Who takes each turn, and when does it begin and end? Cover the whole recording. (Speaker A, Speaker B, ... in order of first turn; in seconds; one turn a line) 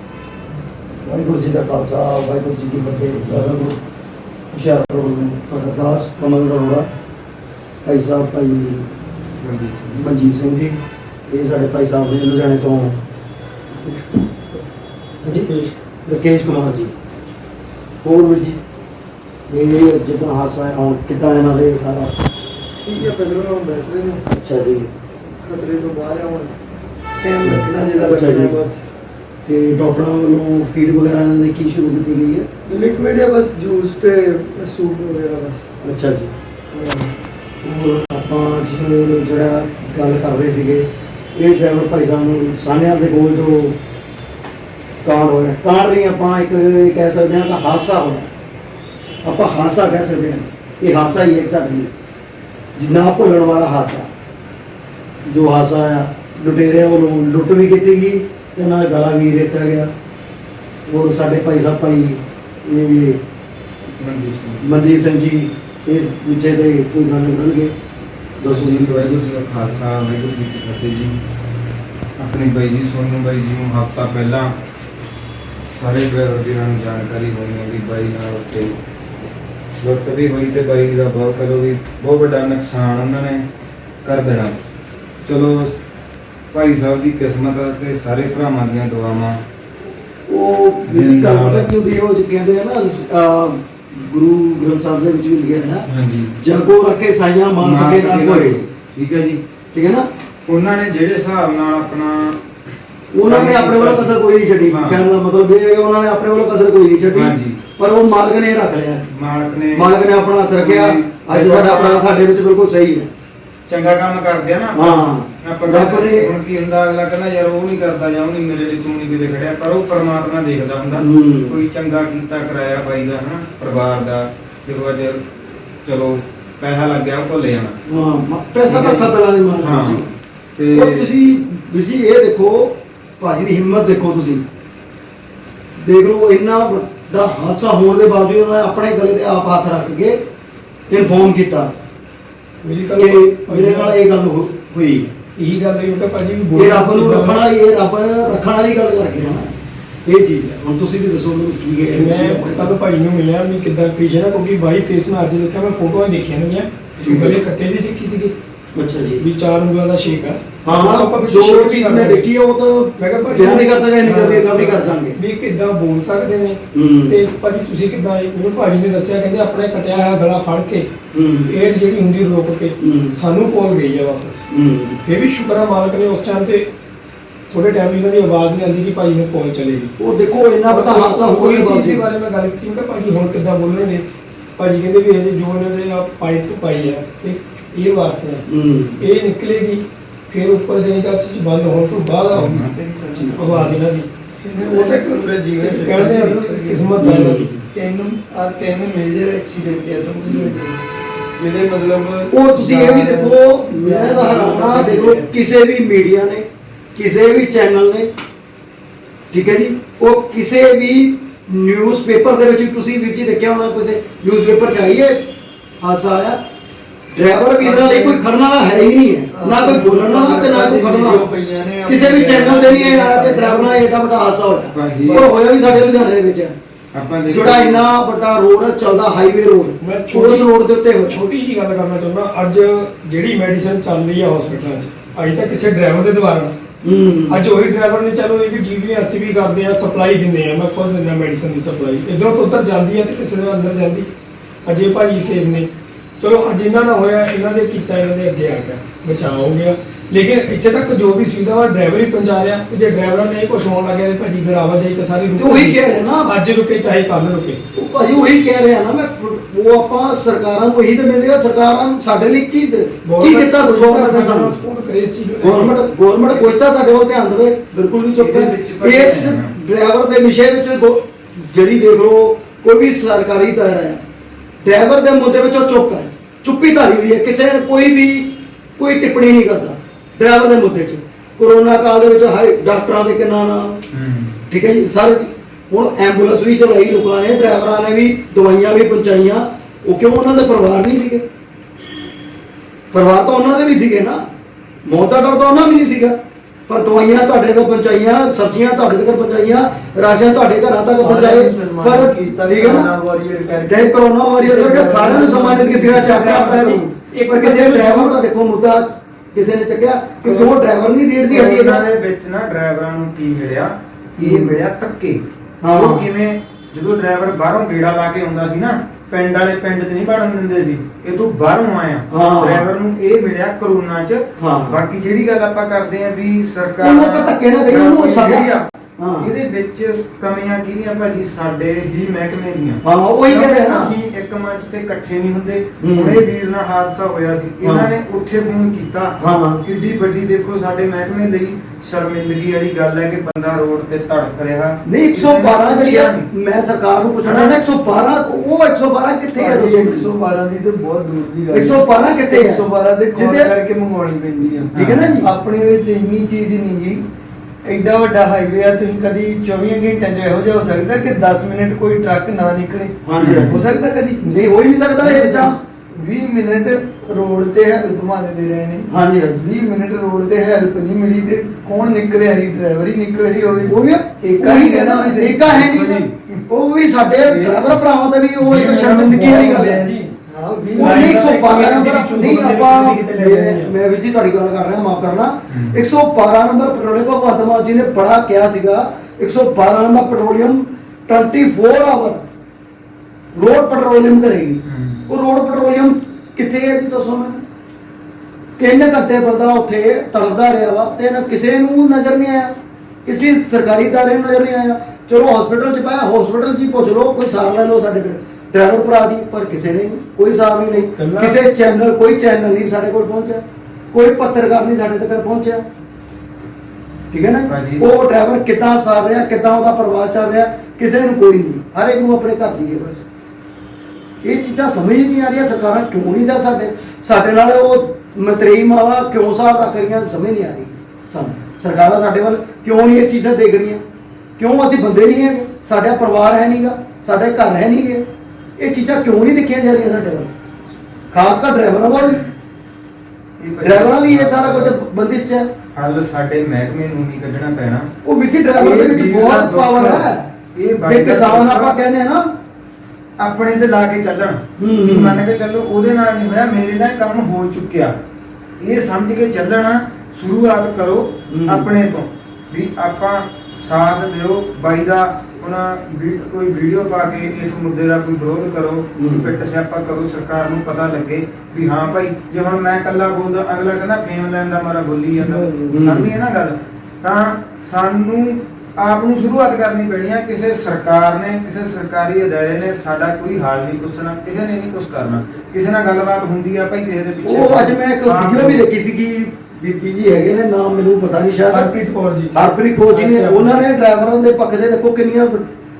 Speaker A: 1.0-3.8
Speaker A: 4.5-6.9
Speaker A: 7.8-8.8
Speaker B: 9.4-10.1
Speaker A: 9.9-12.9
Speaker A: 15.2-15.5
Speaker C: 15.3-15.8
Speaker A: 16.1-16.9
Speaker A: 18.0-18.6
Speaker A: 19.5-22.2
Speaker D: 22.8-24.3
Speaker A: 24.3-24.9
Speaker D: 25.4-26.5
Speaker D: 27.2-28.8
Speaker A: 27.3-28.6
Speaker A: 29.4-32.5
Speaker D: 32.6-35.6
Speaker A: 35.8-36.3
Speaker D: 36.7-37.1
Speaker A: 37.6-43.8
Speaker A: 45.0-48.3
Speaker A: 49.2-51.9
Speaker A: 52.8-54.1
Speaker A: 55.2-59.9
Speaker A: 60.9-63.2
Speaker B: 64.0-64.8
Speaker A: 64.6-67.7
Speaker A: 68.4-69.2
Speaker B: 68.5-71.2
Speaker B: 72.2-74.5
Speaker B: 75.7-78.8
Speaker B: 79.8-83.5
Speaker B: 84.0-84.6
Speaker B: 85.2-85.8
Speaker B: 86.5-89.4
Speaker A: 90.3-95.8
Speaker B: 90.9-91.7
Speaker B: 95.9-96.4
Speaker A: 96.4-98.6
Speaker B: 97.6-99.4
Speaker A: 99.7-100.1
Speaker B: 100.5-102.4
Speaker A: 103.1-109.1
Speaker B: 103.2-104.2
Speaker B: 104.7-105.0
Speaker B: 107.1-107.6
Speaker B: 109.1-109.9
Speaker A: 109.7-113.1
Speaker B: 110.6-112.1
Speaker B: 113.7-125.2
Speaker A: 114.7-116.3
Speaker A: 120.9-121.6
Speaker B: 125.8-127.8
Speaker A: 127.8-130.1
Speaker B: 128.7-130.0
Speaker B: 130.6-131.1
Speaker A: 130.7-134.4
Speaker A: 135.8-140.2
Speaker A: 140.9-141.7
Speaker C: 142.6-143.9
Speaker A: 142.9-145.1
Speaker C: 145.3-147.4
Speaker A: 146.5-149.5
Speaker A: 150.1-152.7
Speaker C: 151.9-158.3
Speaker A: 157.0-157.4
Speaker A: 158.7-159.2
Speaker C: 159.2-162.3
Speaker A: 160.6-165.2
Speaker C: 163.0-170.9
Speaker A: 166.7-167.2
Speaker A: 171.1-171.5
Speaker C: 171.5-174.4
Speaker A: 172.8-173.1
Speaker A: 174.5-175.0
Speaker C: 175.0-176.7
Speaker C: 177.5-179.9
Speaker A: 180.0-182.0
Speaker C: 180.7-184.0
Speaker C: 184.6-188.4
Speaker A: 188.5-189.0
Speaker C: 189.0-192.6
Speaker B: 192.3-192.8
Speaker D: 192.7-193.4
Speaker C: 193.3-194.1
Speaker B: 193.4-193.7
Speaker D: 194.4-197.0
Speaker C: 194.7-197.5
Speaker A: 197.0-197.6
Speaker D: 197.7-200.8
Speaker D: 201.3-205.3
Speaker A: 202.3-208.1
Speaker A: 209.3-216.4
Speaker A: 217.1-221.3
Speaker D: 217.6-218.2
Speaker D: 219.3-223.8
Speaker A: 221.8-226.5
Speaker B: 224.7-225.8
Speaker B: 226.9-227.8
Speaker A: 227.3-231.2
Speaker C: 229.8-230.5
Speaker C: 231.1-236.6
Speaker A: 236.8-237.4
Speaker C: 237.3-244.1
Speaker C: 244.6-257.6
Speaker A: 255.3-256.3
Speaker A: 257.7-264.6
Speaker C: 263.0-265.7
Speaker A: 265.4-274.0
Speaker B: 268.1-269.5
Speaker A: 274.6-283.8
Speaker B: 283.9-284.4
Speaker A: 284.5-291.2
Speaker A: 292.9-294.2
Speaker A: 294.8-296.1
Speaker A: 296.7-302.9
Speaker D: 300.9-303.9
Speaker A: 303.6-311.8
Speaker D: 304.4-305.8
Speaker C: 305.7-308.1
Speaker B: 310.2-310.5
Speaker B: 311.3-315.2
Speaker A: 314.2-314.6
Speaker A: 315.6-316.1
Speaker B: 315.7-328.7
Speaker A: 322.1-322.7
Speaker A: 324.4-324.8
Speaker A: 326.8-329.3
Speaker B: 329.2-346.2
Speaker A: 332.8-333.9
Speaker A: 335.8-336.2
Speaker A: 337.6-337.9
Speaker A: 339.2-339.6
Speaker A: 344.9-350.1
Speaker B: 347.2-347.6
Speaker D: 349.4-357.0
Speaker A: 351.5-353.5
Speaker B: 354.7-355.2
Speaker A: 354.7-355.3
Speaker D: 357.6-364.3
Speaker A: 363.0-363.6
Speaker B: 363.2-363.6
Speaker A: 364.2-365.6
Speaker D: 365.0-376.4
Speaker A: 368.9-369.4
Speaker A: 373.7-379.9
Speaker D: 377.2-377.6
Speaker C: 378.4-380.1
Speaker D: 378.6-379.3
Speaker D: 380.3-381.2
Speaker A: 380.7-392.2
Speaker C: 380.8-383.7
Speaker B: 385.5-385.8
Speaker A: 393.3-397.4
Speaker B: 394.6-395.0
Speaker A: 398.6-402.5
Speaker A: 403.1-415.6
Speaker C: 411.0-411.4
Speaker A: 417.1-423.0
Speaker B: 417.5-417.8
Speaker A: 424.2-433.8
Speaker A: 434.4-438.0
Speaker A: 438.6-440.3
Speaker A: 441.1-442.2
Speaker B: 443.4-444.7
Speaker A: 443.6-445.5
Speaker B: 445.7-447.9
Speaker A: 448.0-450.2
Speaker B: 448.6-451.7
Speaker A: 450.8-452.3
Speaker B: 453.2-457.9
Speaker A: 454.6-455.2
Speaker B: 458.6-488.6
Speaker A: 461.3-461.7
Speaker A: 468.9-469.3
Speaker D: 475.2-475.8
Speaker A: 475.7-476.1
Speaker A: 487.2-491.7
Speaker C: 491.5-492.3
Speaker A: 492.3-495.5
Speaker C: 492.9-493.6